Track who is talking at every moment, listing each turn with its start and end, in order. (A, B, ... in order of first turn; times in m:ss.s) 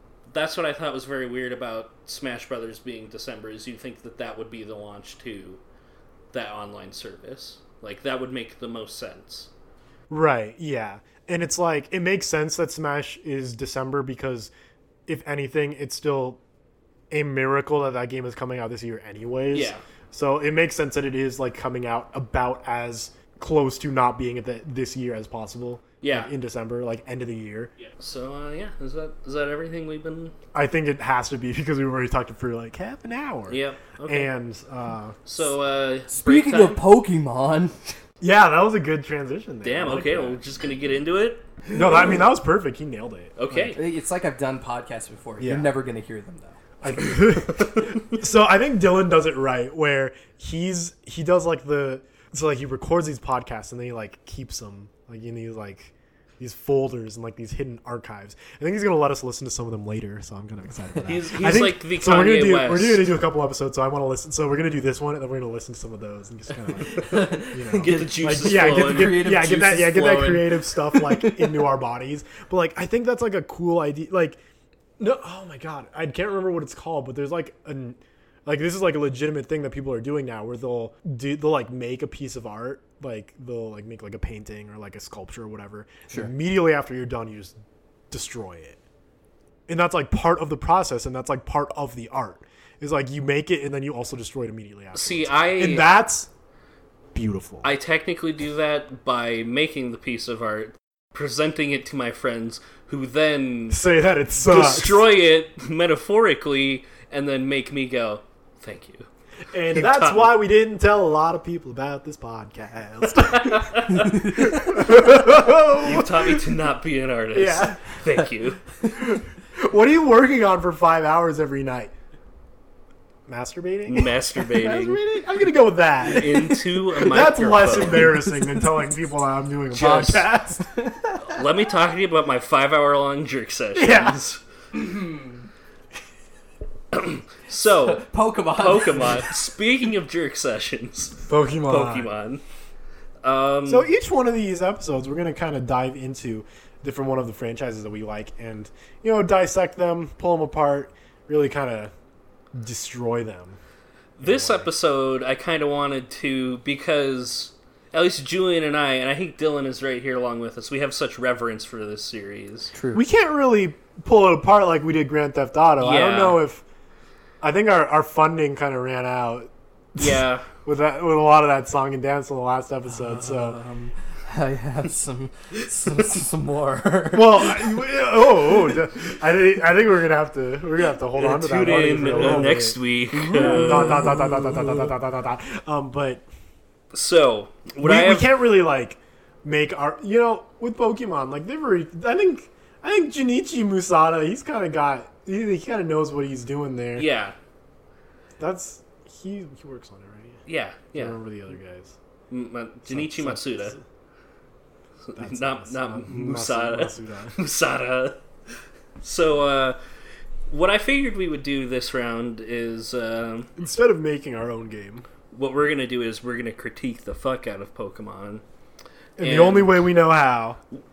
0:00.3-0:05.6 A
0:06.3-0:09.5 A
0:10.1-0:14.5 B
0:15.1-0:16.4 B
0:17.1-0:27.7 B
0:19.5-0:19.8 A
0:26.0-0:26.3 A
0:27.8-0:30.3 A
0:30.5-0:35.2 B
0:33.5-0:34.3 A
0:35.2-0:36.8 A
0:36.1-0:37.9 C
0:38.2-0:40.4 B
0:39.6-0:41.5 A
0:41.7-0:43.7 B
0:43.4-0:43.8 A
0:43.7-0:46.6 C
0:45.4-0:45.7 B
0:46.8-1:14.4 B
0:47.3-0:48.1 A
1:01.0-1:03.1 A
1:06.9-1:11.6 C
1:07.7-1:09.2 A
1:15.0-1:27.6 B
1:28.1-1:28.8 B
1:29.7-1:36.3 B
1:34.9-1:35.9 A
1:37.1-1:37.7 B
1:37.6-1:43.8 A
1:43.7-1:45.1 B
1:44.4-1:49.1 A
1:49.5-1:56.5 B
1:49.7-1:50.4 A
1:53.1-1:58.6 A
1:53.9-1:54.7 C
1:57.3-1:57.9 B
1:58.8-2:01.9 B
2:03.3-2:10.6 B
2:03.9-2:05.0 A
2:06.0-2:08.2 A
2:08.0-2:08.9 C
2:09.8-2:11.4 C
2:09.8-2:10.1 A
2:11.2-2:14.4 A
2:13.7-2:14.2 B
2:14.7-2:15.5 C
2:16.9-2:22.4 A
2:17.8-2:19.3 C
2:21.3-2:22.1 B
2:23.2-2:23.9 A
2:23.6-2:31.9 B
2:32.5-2:33.6 B
2:34.2-2:42.7 A
2:34.2-2:34.7 B
2:42.7-2:43.0 C
2:42.9-2:46.6 B
2:45.8-2:46.4 A
2:47.4-2:53.6 B
2:50.0-2:50.5 A
2:52.9-2:57.7 C
2:57.1-3:06.2 B
3:01.2-3:04.3 A
3:03.1-3:04.5 C
3:06.9-3:08.3 A
3:07.8-3:17.1 B
3:17.0-3:17.4 A
3:18.4-3:20.4 B
3:20.5-3:21.2 A
3:20.9-3:22.0 B
3:22.3-3:23.8 A
3:22.8-3:23.8 B
3:25.0-3:28.2 A
3:25.2-3:27.4 B
3:29.0-3:29.8 A
3:30.5-3:33.5 A
3:33.6-3:35.1 B
3:35.3-3:38.4 A
3:39.2-3:40.6 B
3:39.2-3:39.8 A